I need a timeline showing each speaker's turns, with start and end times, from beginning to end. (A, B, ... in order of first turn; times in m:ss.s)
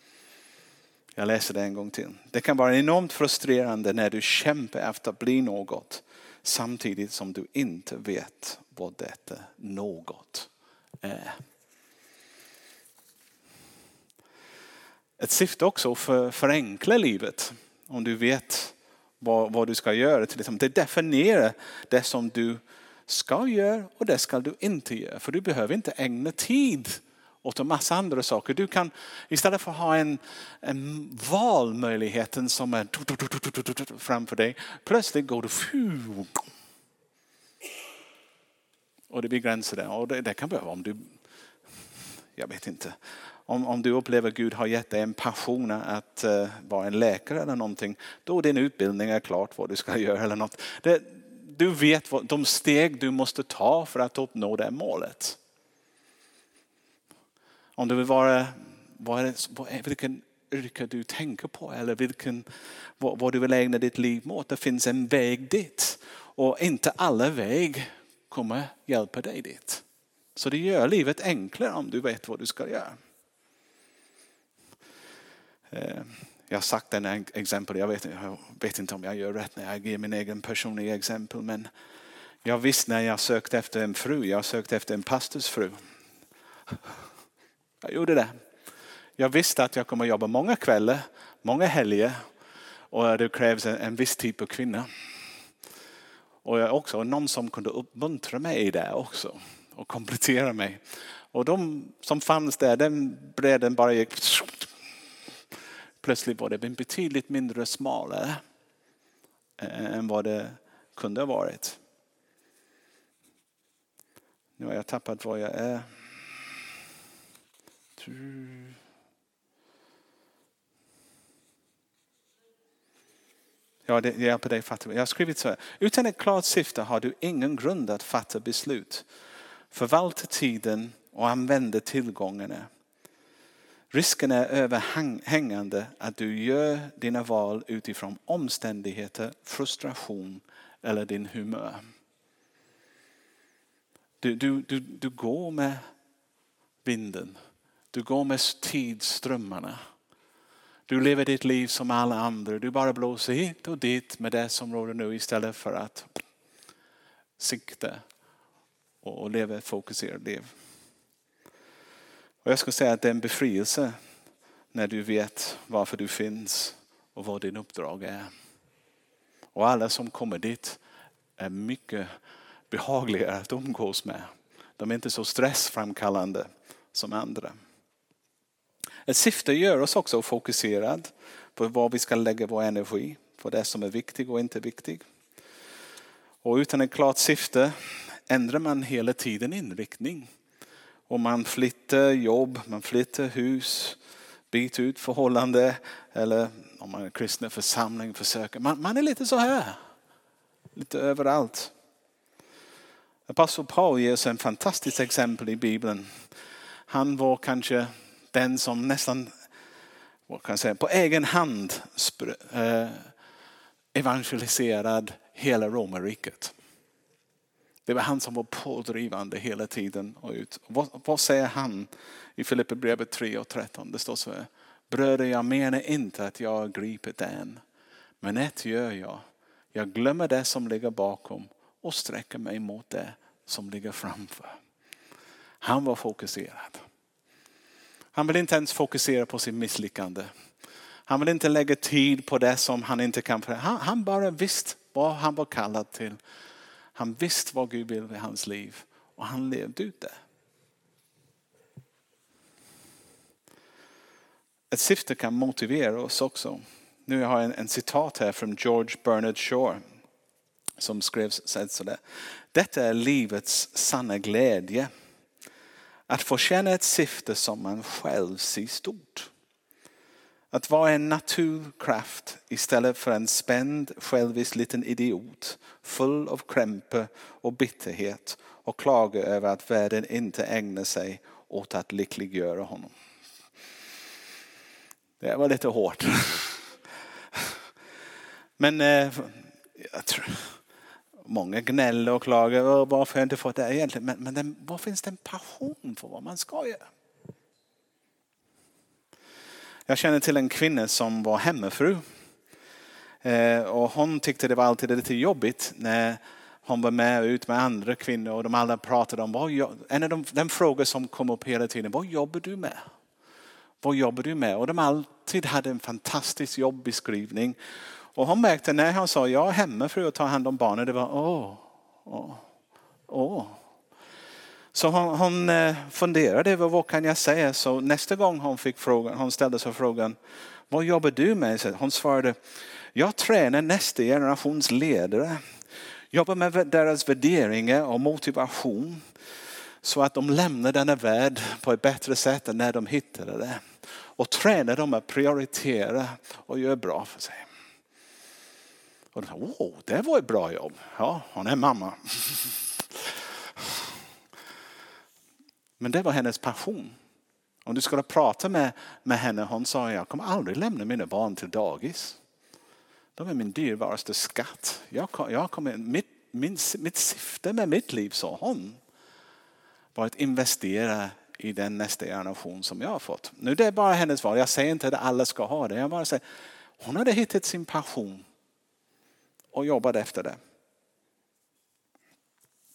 0:01.2-0:10.5 A
0:11.0-0:11.4 A
0:15.2-0:36.4 A
0:39.1-0:41.1 A
0:42.4-0:55.4 A
0:57.8-1:02.4 A
1:03.0-1:09.8 A
1:10.4-1:13.0 A
1:15.7-1:21.7 A
1:22.4-1:25.8 A
1:27.8-1:28.4 A
1:29.2-1:32.2 A
1:32.9-1:34.9 A
1:36.4-1:40.8 A
1:41.3-1:44.7 A
1:46.0-1:48.4 A
1:49.6-1:51.8 A
1:54.6-1:55.9 A
1:58.0-1:58.7 A
2:03.8-2:09.0 A
2:09.7-2:12.7 A
2:13.9-2:21.9 A
2:24.2-2:25.8 A
2:26.8-2:27.4 A
2:27.9-2:29.8 A
2:30.9-2:36.1 A
2:37.4-2:38.0 A
2:39.0-2:40.5 A
2:42.4-2:44.0 A
2:44.7-2:48.3 A
2:49.5-2:50.8 A
2:51.4-2:52.1 A
2:52.7-2:57.5 A
2:59.0-3:05.0 A
3:06.4-3:10.3 A
3:11.1-3:14.0 A
3:14.5-3:19.8 A
3:20.7-3:21.7 A
3:23.3-3:26.3 A
3:26.9-3:29.3 A
3:30.3-3:33.1 A
3:33.9-3:36.5 A
3:37.8-3:47.6 A
3:48.2-3:54.6 A
3:55.6-3:56.8 A
3:58.1-4:00.3 A
4:01.1-4:06.2 A
4:06.9-4:10.2 A
4:14.7-4:19.8 A
4:20.8-4:22.0 A
4:22.5-4:24.9 A
4:26.1-4:29.3 A
4:30.5-4:42.9 A
4:45.2-4:46.7 A
4:48.6-4:50.6 A
4:51.2-4:56.8 A
4:59.9-5:02.0 A
5:03.2-5:12.8 A
5:13.8-5:17.6 A
5:18.1-5:22.4 A
5:23.1-5:23.6 A
5:24.7-5:30.2 A
5:30.7-5:32.4 A
5:32.9-5:35.5 A
5:36.1-5:39.0 A
5:39.8-5:47.4 A
5:49.1-5:53.8 A
5:55.8-5:57.0 A
5:57.6-6:02.2 A
6:03.2-6:08.8 A
6:09.9-6:16.2 A
6:16.8-6:18.2 A
6:19.5-6:20.4 A